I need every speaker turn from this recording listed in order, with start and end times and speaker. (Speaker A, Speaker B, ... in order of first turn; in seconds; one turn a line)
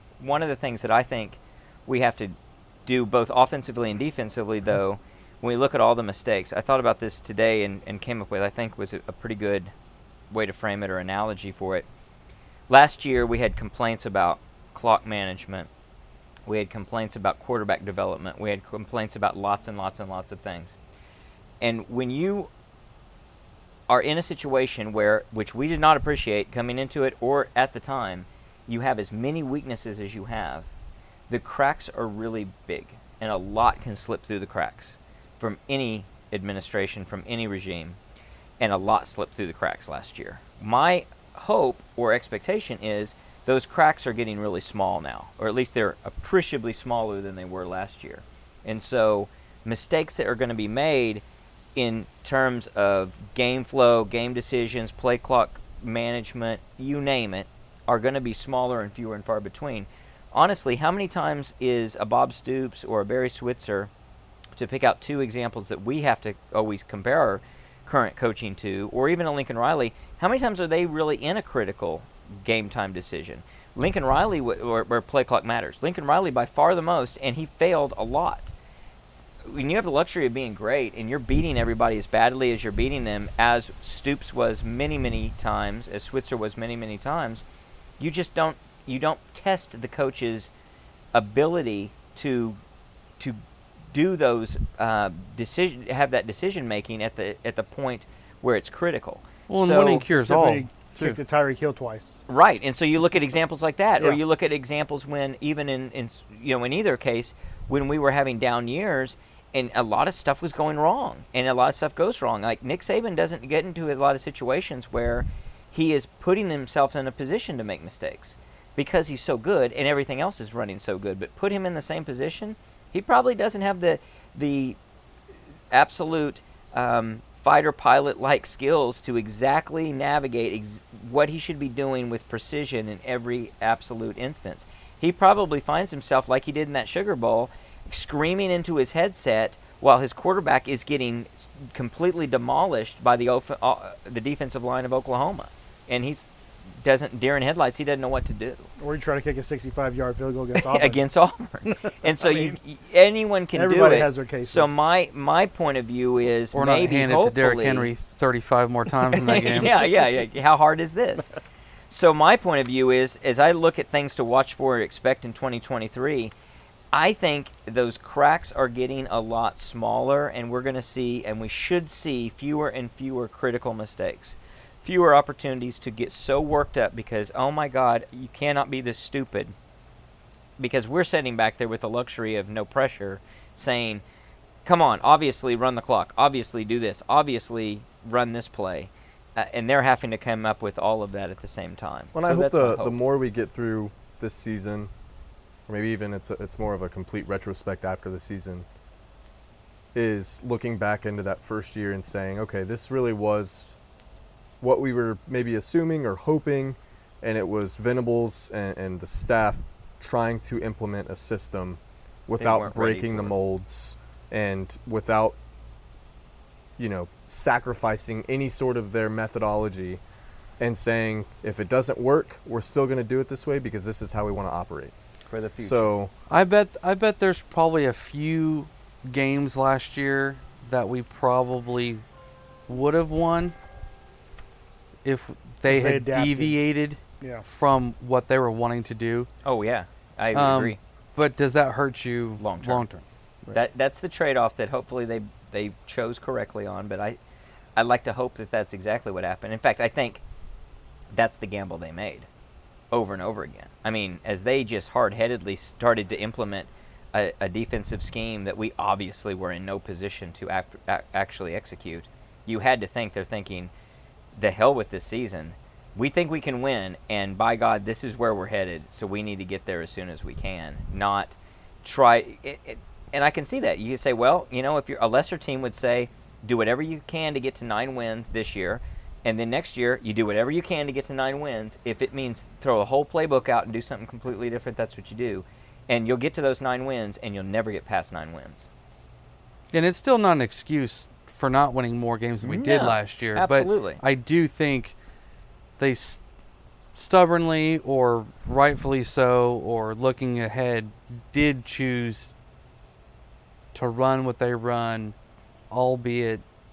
Speaker A: 0.2-9.7
Speaker A: 10.3-11.9
Speaker A: 12.7-15.7
Speaker A: 16.5-20.8
Speaker A: 21.6-22.5
Speaker A: 23.9-30.7
Speaker A: 31.3-38.0
Speaker A: 38.6-51.2
Speaker A: 51.8-63.9
Speaker A: 64.6-78.5
Speaker A: 79.5-87.4
Speaker A: 88.0-90.5
Speaker A: 91.1-92.6
Speaker A: 93.9-100.0
Speaker B: 99.5-101.2
Speaker C: 100.2-102.2
Speaker A: 102.3-124.8
Speaker A: 125.7-146.3
Speaker A: 146.8-148.7
Speaker C: 148.8-151.0
Speaker A: 150.6-157.9
Speaker C: 152.1-152.6
Speaker C: 153.5-154.8
Speaker B: 156.5-159.8
Speaker A: 159.1-161.3
Speaker A: 161.9-166.3
Speaker A: 166.9-179.6
Speaker A: 180.6-184.0
Speaker A: 184.7-193.0
Speaker D: 192.1-194.9
Speaker D: 195.7-198.7
Speaker D: 199.9-203.8
Speaker D: 204.6-215.4
Speaker A: 212.4-213.3
Speaker D: 216.8-220.0
Speaker D: 220.6-224.9
Speaker A: 225.3-225.9
Speaker D: 225.6-226.1
Speaker B: 226.3-232.0
Speaker B: 232.7-233.5
Speaker B: 235.0-239.3
Speaker C: 235.7-236.6
Speaker A: 239.4-240.8
Speaker B: 240.3-243.0
Speaker A: 242.4-242.8
Speaker A: 243.5-247.2
Speaker A: 247.8-250.2
Speaker A: 251.1-252.3
Speaker A: 252.9-263.7
Speaker A: 264.4-288.7
Speaker B: 289.7-294.9
Speaker A: 292.4-294.0
Speaker B: 295.8-296.2
Speaker B: 296.9-302.3
Speaker B: 303.7-305.1
Speaker B: 305.7-306.4